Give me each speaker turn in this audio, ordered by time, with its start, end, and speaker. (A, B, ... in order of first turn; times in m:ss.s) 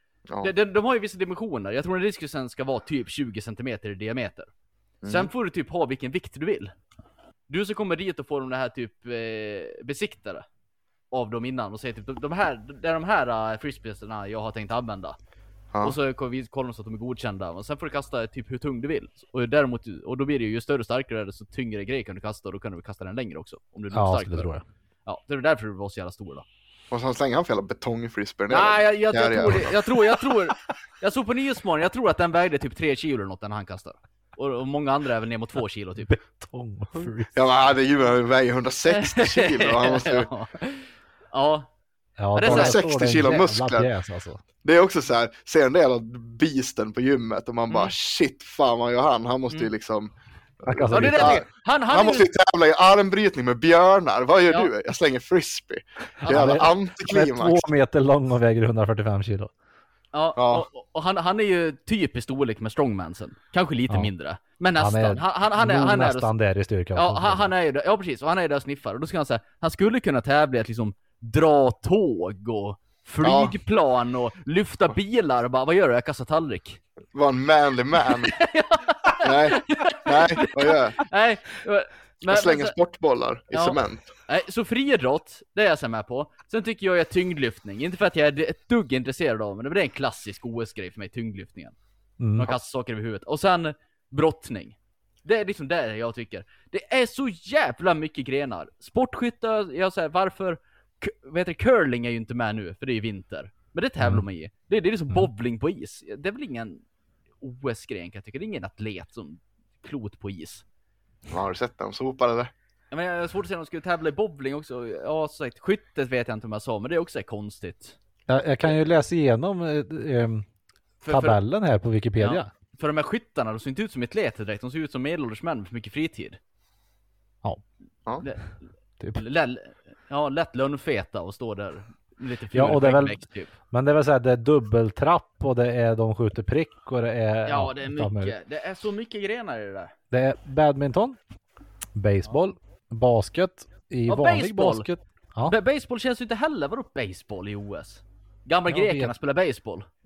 0:00.4-0:04.5 A
0:05.0-0:05.3 B
0:05.1-0:06.7 A
0:07.5-0:10.5 A
0:11.1-0:15.2 A
0:15.8-0:24.5 A
0:23.9-0:24.6 C
0:25.1-0:26.4 A
0:26.9-0:29.9 B
0:28.5-0:36.1 A
0:36.1-0:37.3 C
0:37.3-0:40.3 B
0:38.9-0:41.7 A
0:42.2-0:44.4 C
0:42.3-0:42.8 A
0:42.4-0:43.9 B
0:44.6-0:57.6 B
0:50.6-0:51.4 C
0:50.9-0:52.3 A
0:56.2-0:56.6 A
0:56.3-0:59.5 C
1:00.1-1:06.3 A
1:00.4-1:00.7 B
1:04.8-1:07.5 C
1:06.9-1:16.8 A
1:13.2-1:13.6 B
1:17.1-1:18.4 B
1:18.2-1:22.8 A
1:19.2-1:21.1 B
1:22.3-1:24.1 B
1:23.5-1:31.8 A
1:32.2-1:32.5 C
1:32.4-1:46.8 A
1:44.0-1:44.2 C
1:47.4-1:50.6 A
1:51.3-1:52.5 B
1:52.9-1:58.0 A
1:58.3-2:00.4 C
2:01.0-2:01.4 A
2:01.1-2:02.5 C
2:02.2-2:06.4 A
2:08.2-2:08.6 A
2:09.1-2:13.5 A
2:12.5-2:18.4 C
2:17.4-2:19.9 A
2:20.1-2:21.2 C
2:22.0-2:25.6 C
2:24.1-2:24.9 A
2:25.4-2:29.9 A
2:28.7-2:29.1 C